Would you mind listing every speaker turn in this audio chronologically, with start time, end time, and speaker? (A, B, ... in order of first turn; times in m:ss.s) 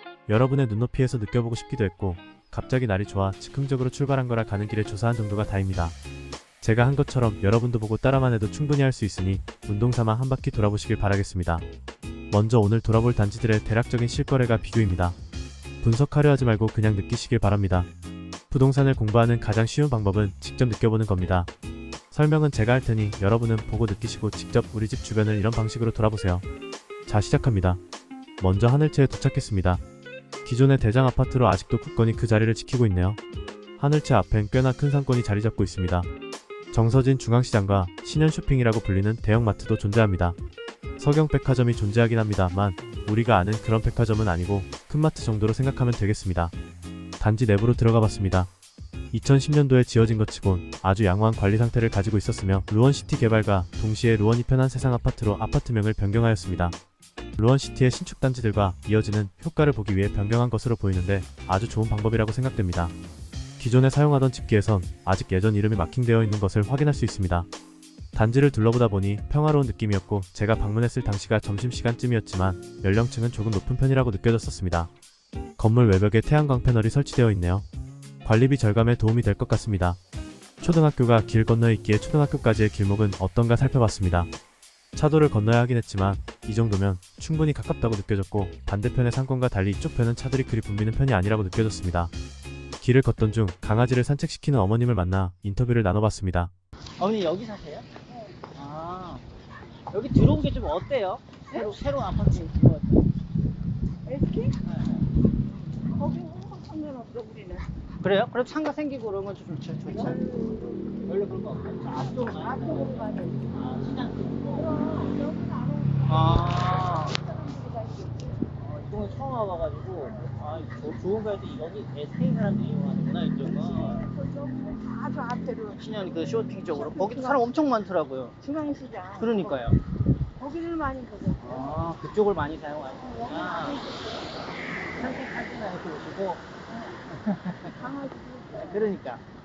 0:00.3-0:06.0 A
0:06.6-0:11.6 A
0:12.3-0:15.2 A
0:15.8-0:17.9 A
0:18.5-0:21.5 A
0:22.1-0:26.4 A
0:27.1-0:27.8 A
0:28.4-0:29.8 A
0:30.4-0:33.2 A
0:33.8-0:36.1 A
0:36.7-0:40.4 A
0:41.0-0:46.5 A
0:47.2-0:48.5 A
0:49.1-0:56.8 A
0:57.4-1:02.9 A
1:03.6-1:07.5 A
1:08.1-1:14.9 A
1:15.6-1:17.6 A
1:18.2-1:20.0 A
1:20.6-1:24.3 A
1:24.9-1:32.1 A
1:32.8-1:36.5 A
1:37.0-1:37.9 B
1:38.1-1:38.4 C
1:38.5-1:39.2 B
1:39.9-1:43.1 B
1:44.0-1:44.6 C
1:44.6-1:45.0 B
1:45.8-1:47.7 C
1:48.0-1:50.5 B
1:50.1-1:50.5 C
1:51.0-1:55.1 B
1:52.4-1:53.5 C
1:54.5-1:58.5 C
1:56.1-1:57.2 B
1:58.6-2:04.0 B
2:03.4-2:07.5 C
2:05.7-2:08.3 B
2:08.4-2:09.7 C
2:09.2-2:09.8 B
2:10.4-2:11.8 C
2:11.4-2:13.9 B
2:13.0-2:14.4 C
2:14.9-2:16.4 B
2:16.7-2:17.0 C
2:17.1-2:17.8 B
2:17.6-2:18.9 C
2:18.5-2:19.2 B